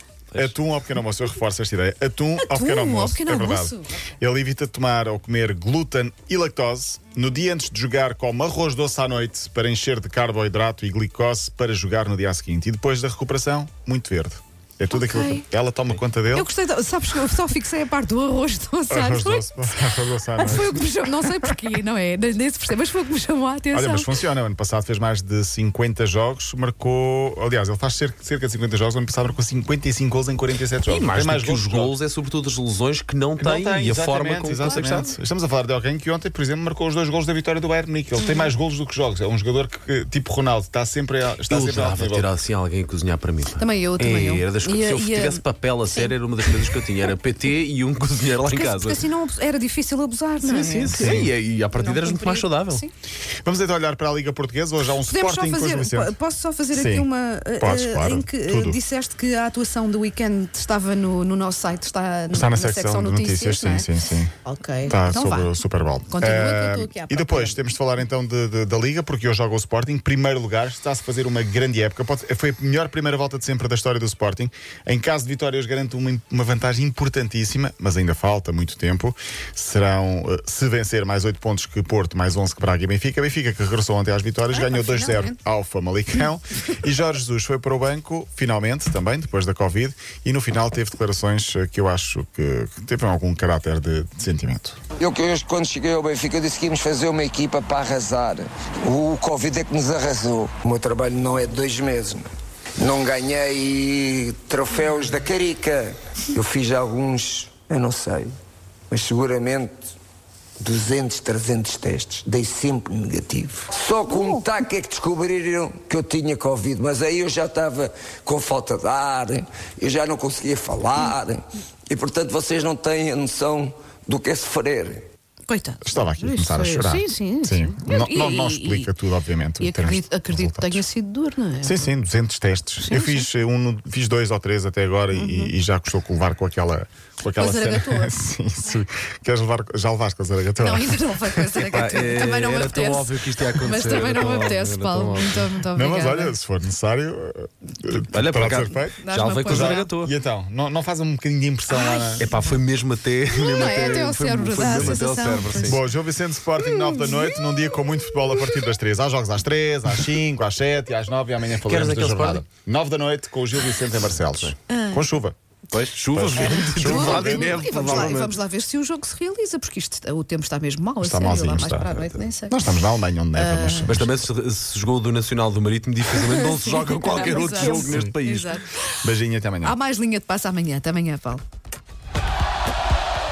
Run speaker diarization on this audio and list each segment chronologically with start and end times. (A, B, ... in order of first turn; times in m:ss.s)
0:00.3-0:16.5 A
0:02.4-0:04.0 B
0:14.9-0:15.4 B
0:16.3-0:24.1 B
0:18.9-0:20.8 A
0:23.7-0:31.9 A
0:30.8-0:35.0 C
0:33.4-0:42.3 A
0:34.6-0:35.1 B
0:38.2-0:38.5 B
0:41.4-0:49.0 C
0:43.6-0:46.9 B
0:48.4-0:52.9 B
0:50.4-0:52.8 C
0:50.8-0:51.2 A
0:53.4-0:56.1 A
0:55.0-1:03.9 B
0:56.7-0:57.1 A
0:57.6-0:58.8 A
1:02.3-1:04.3 A
1:04.4-1:05.5 B
1:04.8-1:34.8 A
1:06.1-1:07.6 B
1:24.5-1:25.4 B
1:35.0-1:42.2 D
1:42.8-1:48.3 D
1:48.9-1:49.9 D
1:50.6-2:05.0 D
1:54.1-1:54.4 B
2:05.5-2:08.9 B
2:05.8-2:10.8 A
2:09.6-2:11.9 B
2:11.6-2:21.5 A
2:12.8-2:13.2 B
2:15.1-2:15.5 B
2:17.3-2:18.1 B
2:20.6-2:26.3 B
2:21.6-2:25.5 C
2:25.7-2:32.3 A
2:28.1-2:30.1 C
2:28.9-2:29.9 B
2:31.7-2:32.6 B
2:32.2-2:35.8 C
2:33.3-2:35.8 B
2:34.6-2:35.0 A
2:35.6-2:45.3 A
2:41.6-2:42.4 C
2:44.1-2:44.5 C
2:44.7-2:45.1 B
2:45.7-2:48.3 C
2:46.1-2:48.2 A
2:46.4-2:52.8 B
2:51.0-2:54.1 A
2:53.3-2:54.1 B
2:53.9-2:58.6 C
2:56.2-2:58.7 B
2:57.8-2:58.2 A
2:59.0-2:59.7 A
2:59.6-3:01.4 B